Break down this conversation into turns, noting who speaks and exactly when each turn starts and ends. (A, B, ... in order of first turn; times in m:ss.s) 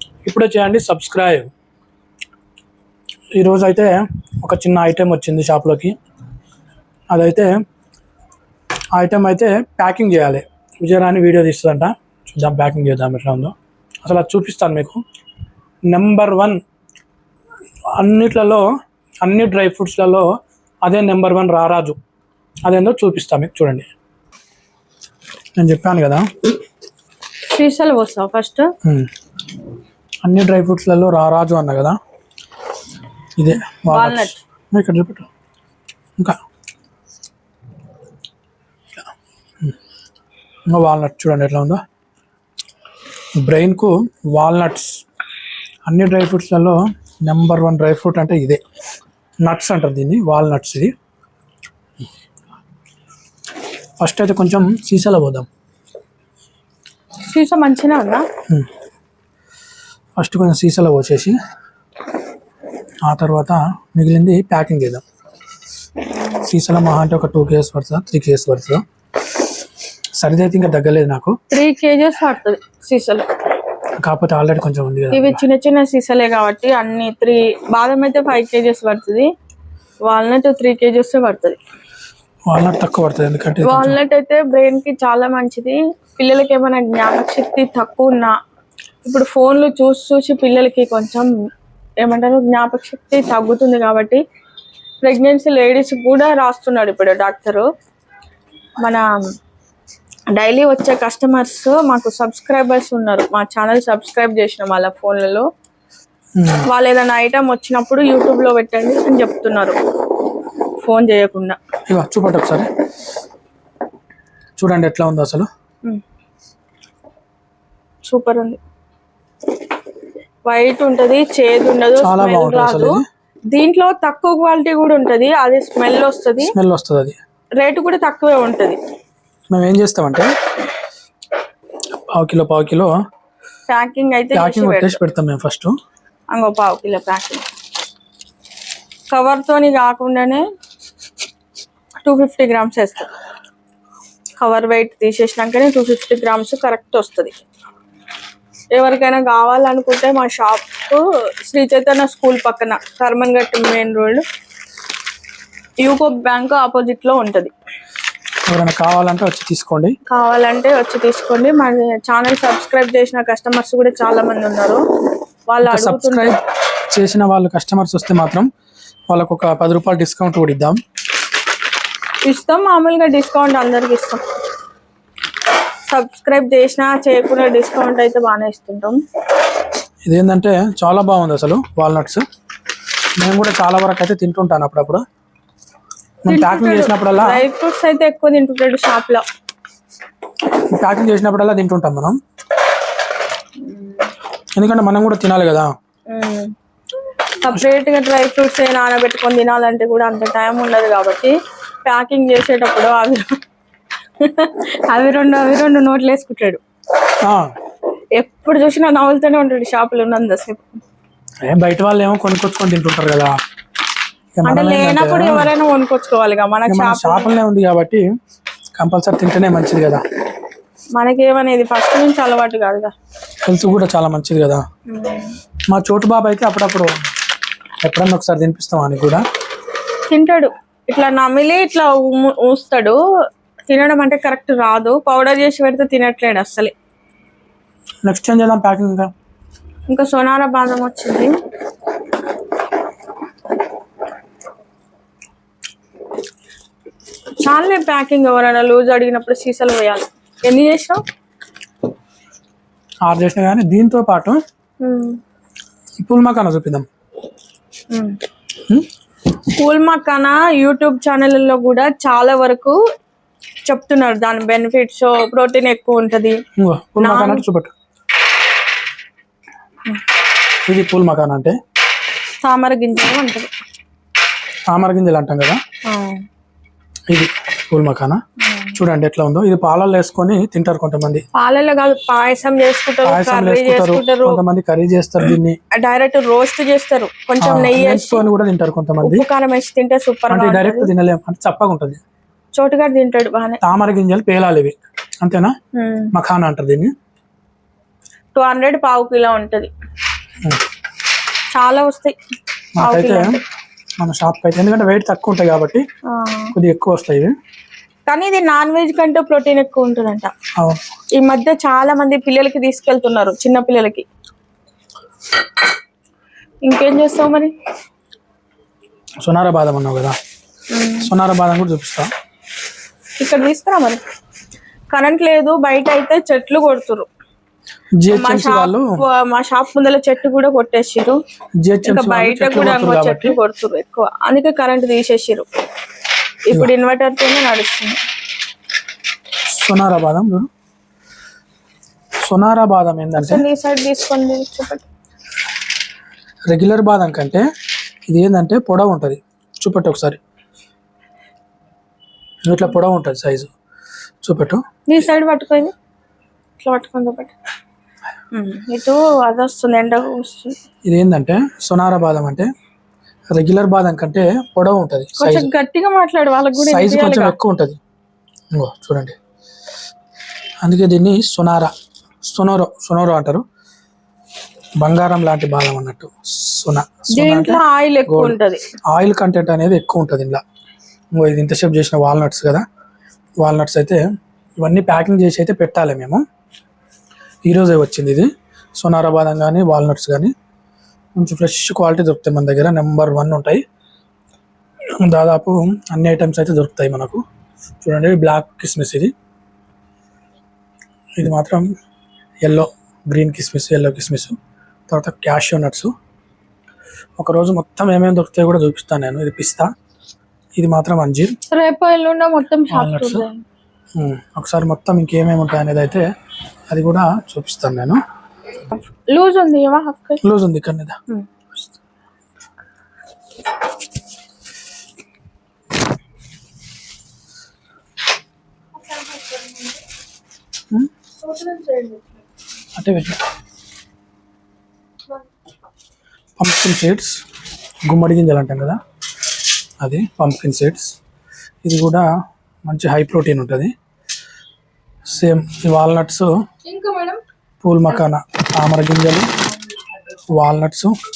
0:00.2-0:01.5 A
0:03.4-0:05.9 A
0:07.1-0:07.5 A
0:08.9-0:15.0 A
0:15.9-0:16.6 A
0:18.0-0:18.6 A
0:19.2-0:20.3 A
0:20.8-0:22.0 A
0:22.6-0:23.9 A
0:25.6-0:26.3 A
0:27.5-0:28.7 B
0:28.8-0:29.1 A
0:30.2-0:32.0 A
0:33.4-0:35.3 A
0:33.9-0:34.4 B
0:40.7-0:41.8 A
0:43.4-0:45.0 A
0:45.9-0:48.6 A
0:49.4-0:50.9 A
0:54.0-0:55.5 A
0:57.2-0:58.2 B
1:00.2-1:01.4 A
1:03.0-1:05.0 A
1:06.4-1:08.8 A
1:10.2-1:11.4 A
1:11.5-1:13.3 B
1:14.0-1:15.4 A
1:15.1-1:19.3 B
1:20.1-1:21.6 B
1:22.5-1:24.0 A
1:23.6-1:28.4 B
1:29.0-1:31.3 B
1:32.0-1:34.2 B
1:35.0-1:37.7 B
1:38.8-1:39.0 B
1:40.3-1:45.5 B
1:46.4-1:46.6 A
1:46.7-1:49.8 B
1:50.8-1:51.6 B
1:51.9-1:52.7 A
1:54.6-1:55.5 A
1:58.0-1:58.6 B
2:00.5-2:06.5 B
2:02.0-2:03.0 A
2:06.4-2:07.2 A
2:07.6-2:08.8 B
2:09.5-2:10.3 A
2:12.1-2:12.9 A
2:13.7-2:15.0 B
2:14.3-2:15.7 A
2:16.3-2:17.5 B
2:19.1-2:20.5 B
2:22.0-2:23.1 B
2:24.4-2:27.3 B
2:28.7-2:34.2 B
2:35.8-2:37.5 B
2:38.5-2:40.0 A
2:40.1-2:44.8 B
2:45.5-2:46.3 B
2:45.6-2:48.5 A
2:49.1-2:50.8 A
2:52.2-2:54.2 B
2:55.9-2:59.0 B
3:00.1-3:02.2 A
3:03.2-3:05.0 A
3:06.2-3:07.4 A
3:06.3-3:09.2 B
3:10.7-3:12.2 A
3:13.6-3:14.1 B
3:14.6-3:15.7 A
3:16.1-3:16.5 B
3:17.4-3:21.3 B
3:21.8-3:23.3 B
3:24.2-3:26.6 B
3:28.2-3:30.8 B
3:31.4-3:33.4 A
3:34.4-3:35.5 A
3:34.5-3:37.4 B
3:36.7-3:38.0 A
3:38.8-3:40.0 A
3:41.0-3:42.9 B
3:43.4-3:44.6 A
3:44.9-3:45.4 B
3:45.7-3:46.9 A
3:47.8-3:49.2 A
3:50.1-3:53.0 B
3:53.7-3:56.7 B
3:58.0-3:59.1 A
3:59.9-4:01.4 B
4:07.4-4:11.0 B
4:13.0-4:14.4 A
4:14.8-4:15.2 B
4:16.0-4:16.9 A
4:17.9-4:18.2 B
4:19.5-4:22.8 B
4:23.7-4:26.4 B
4:26.6-4:27.7 A
4:27.0-4:27.4 B
4:30.7-4:31.6 A
4:32.4-4:33.5 B
4:34.7-4:35.6 A
4:35.9-4:36.2 B
4:37.1-4:38.2 A
4:38.5-4:38.8 B
4:38.7-4:41.2 A
4:41.3-4:44.4 B
4:43.0-4:45.6 A
4:45.7-4:48.3 B
4:47.4-4:49.3 A
4:49.0-4:50.9 B
4:50.3-4:52.0 A
4:52.5-4:53.6 B
4:53.6-4:55.5 A
4:55.7-4:56.1 B
4:56.1-4:56.9 A
4:58.4-4:59.7 B
5:01.5-5:02.2 B
5:02.8-5:03.4 A
5:02.8-5:03.4 B
5:04.0-5:05.8 A
5:06.1-5:06.5 B
5:06.5-5:07.3 A
5:08.1-5:10.3 B
5:11.2-5:14.1 B
5:16.6-5:17.5 B
5:19.2-5:20.2 A
5:20.7-5:21.1 B
5:21.0-5:22.1 A
5:23.2-5:24.0 B
5:24.9-5:27.1 B
5:28.0-5:28.9 A
5:28.1-5:31.2 B
5:31.6-5:33.4 A
5:31.8-5:35.5 B
5:36.5-5:38.0 B
5:39.5-5:40.5 A
5:42.2-5:43.4 A
5:43.2-5:44.9 B
5:46.5-5:47.4 A
5:48.1-5:50.2 A
5:52.5-5:53.5 A
5:54.2-5:54.6 A
5:54.9-5:55.7 B
5:56.6-5:57.3 B
5:58.3-6:00.6 B
6:00.9-6:02.5 A
6:03.3-6:05.5 A
6:05.2-6:07.4 B
6:06.6-6:07.8 A
6:08.5-6:09.2 A
6:10.6-6:11.7 A
6:12.2-6:13.4 A
6:14.8-6:18.4 A
6:17.1-6:18.6 B
6:18.9-6:20.4 A
6:21.1-6:22.6 A
6:23.4-6:24.0 A
6:24.6-6:26.2 A
6:27.5-6:30.3 A
6:31.2-6:33.6 A
6:35.0-6:37.2 A
6:37.8-6:39.1 A
6:41.2-6:41.7 A
6:42.4-6:44.4 A
6:44.9-6:45.9 A
6:47.2-6:49.7 A
6:50.6-6:51.3 A
6:51.5-6:53.4 B
6:52.7-6:53.3 A
6:54.0-6:56.0 A
6:56.7-6:58.0 A
6:58.7-7:00.2 B
7:00.2-7:01.0 A
7:08.8-7:09.8 B
7:11.2-7:12.2 B
7:12.8-7:13.2 A
7:16.4-7:17.2 A
7:17.9-7:18.8 A
7:19.8-7:20.9 A
7:21.6-7:22.1 A
7:22.7-7:23.7 A
7:25.1-7:26.3 A
7:26.7-7:27.2 B
7:27.6-7:29.3 A
7:30.3-7:31.0 A